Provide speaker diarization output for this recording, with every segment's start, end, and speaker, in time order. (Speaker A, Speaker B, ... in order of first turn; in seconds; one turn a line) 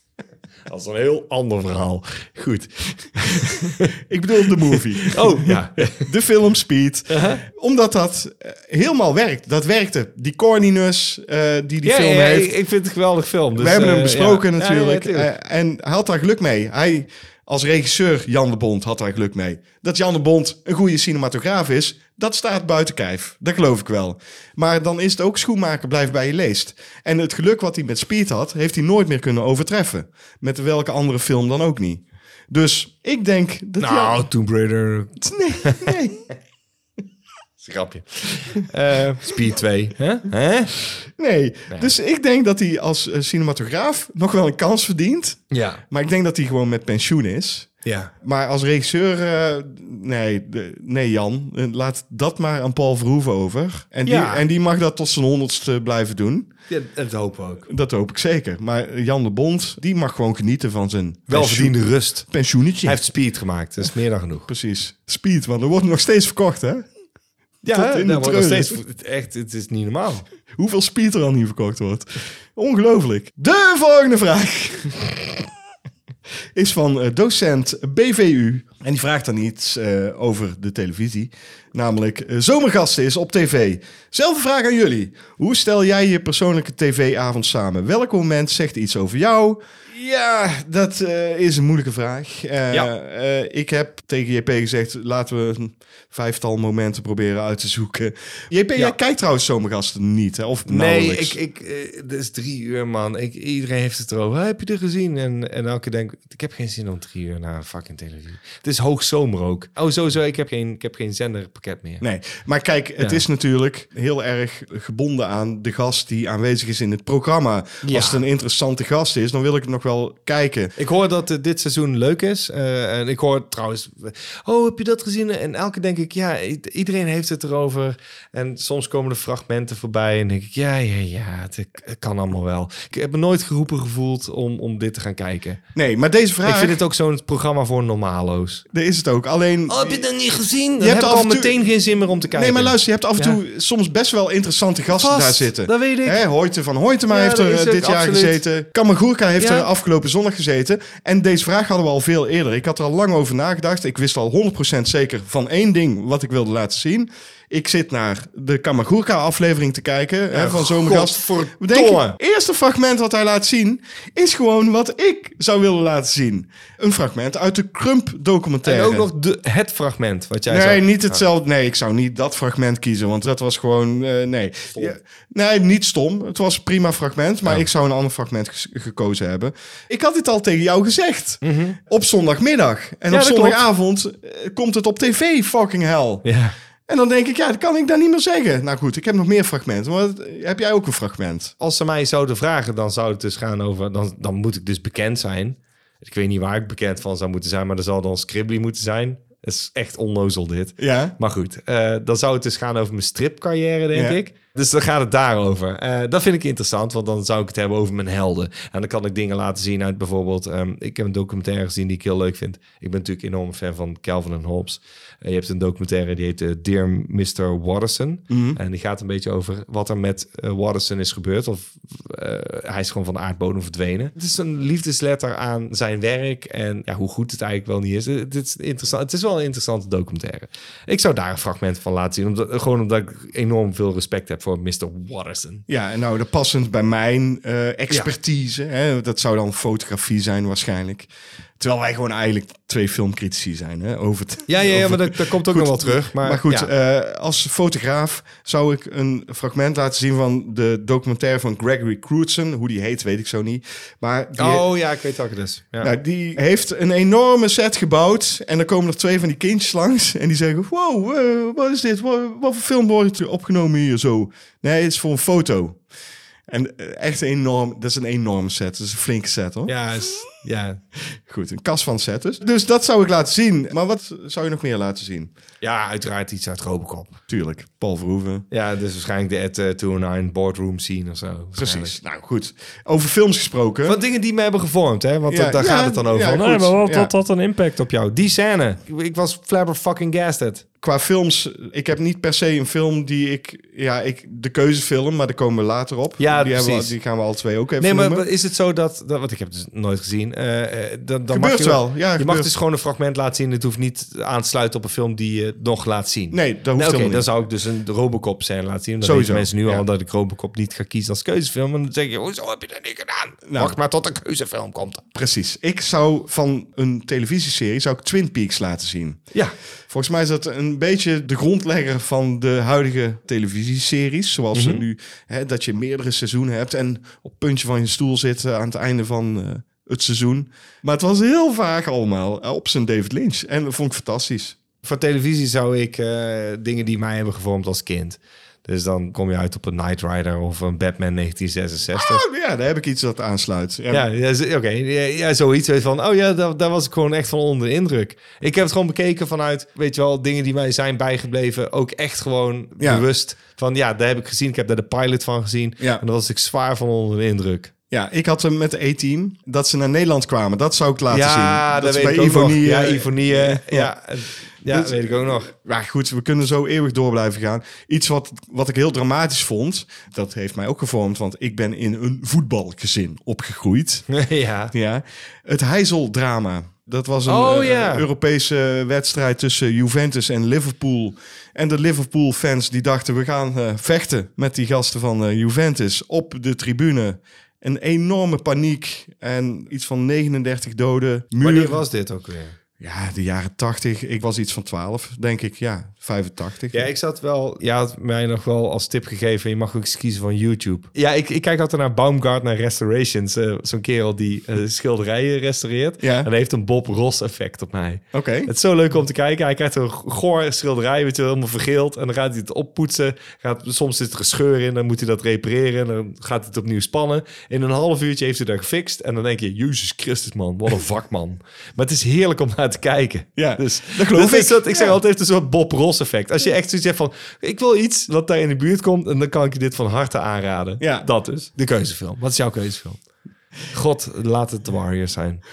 Speaker A: 0.7-3.9
Speaker B: 4.0-12.5
Speaker A: 4.7-6.1
Speaker A: 7.1-7.4
Speaker A: 11.8-15.3
Speaker B: 13.6-34.2
Speaker A: 33.8-36.0
Speaker B: 35.2-36.2
Speaker A: 37.6-40.8
Speaker B: 41.1-47.7
Speaker A: 45.5-45.8
Speaker A: 47.8-48.1
Speaker B: 48.2-56.5
Speaker A: 54.0-54.4
Speaker A: 56.7-57.7
Speaker B: 57.7-63.0
Speaker A: 61.3-62.3
Speaker A: 62.8-64.5
Speaker B: 64.5-66.8
Speaker A: 67.6-70.2
Speaker B: 67.7-68.8
Speaker B: 70.6-75.5
Speaker B: 76.5-101.4
Speaker A: 100.7-112.0
Speaker B: 112.0-120.7
Speaker A: 117.8-118.2
Speaker A: 120.8-135.6
Speaker B: 135.7-136.8
Speaker A: 136.4-138.6
Speaker B: 138.7-140.1
Speaker A: 139.7-143.4
Speaker B: 140.8-141.6
Speaker B: 142.3-169.1
Speaker A: 144.9-146.2
Speaker A: 147.1-148.4
Speaker A: 149.4-149.7
Speaker A: 160.3-162.2
Speaker A: 168.6-171.2
Speaker B: 170.4-186.2
Speaker A: 181.4-181.8
Speaker A: 183.1-183.6
Speaker A: 186.2-186.5
Speaker B: 186.9-191.5
Speaker A: 191.6-235.6
Speaker B: 200.8-201.2
Speaker B: 203.9-204.2
Speaker B: 218.3-218.6
Speaker B: 235.7-241.1
Speaker B: 241.6-254.7
Speaker A: 244.5-246.7
Speaker A: 254.3-255.9
Speaker B: 255.8-265.8
Speaker B: 266.5-269.7
Speaker A: 269.7-270.8
Speaker B: 271.2-275.3
Speaker A: 275.6-277.2
Speaker B: 277.3-278.4
Speaker A: 278.5-282.0
Speaker B: 281.5-284.0
Speaker A: 283.9-290.6
Speaker B: 285.3-287.1
Speaker B: 290.8-298.2
Speaker A: 296.2-296.9
Speaker A: 297.8-315.0
Speaker B: 301.3-302.5
Speaker B: 306.3-307.3
Speaker B: 309.0-309.8
Speaker B: 313.4-313.8
Speaker B: 315.1-319.2
Speaker B: 319.9-334.6
Speaker A: 324.5-324.8
Speaker A: 334.8-342.2
Speaker B: 341.9-344.1
Speaker A: 343.9-357.7
Speaker B: 352.8-353.0
Speaker B: 357.9-363.9
Speaker A: 361.1-365.5
Speaker B: 364.7-374.1
Speaker A: 374.1-374.7
Speaker B: 374.7-391.8
Speaker A: 377.2-378.1
Speaker A: 391.4-392.5
Speaker B: 392.8-396.9
Speaker A: 396.7-433.0
Speaker B: 406.0-406.3
Speaker B: 408.1-408.5
Speaker B: 423.4-425.0
Speaker B: 430.8-431.1
Speaker A: 433.7-435.4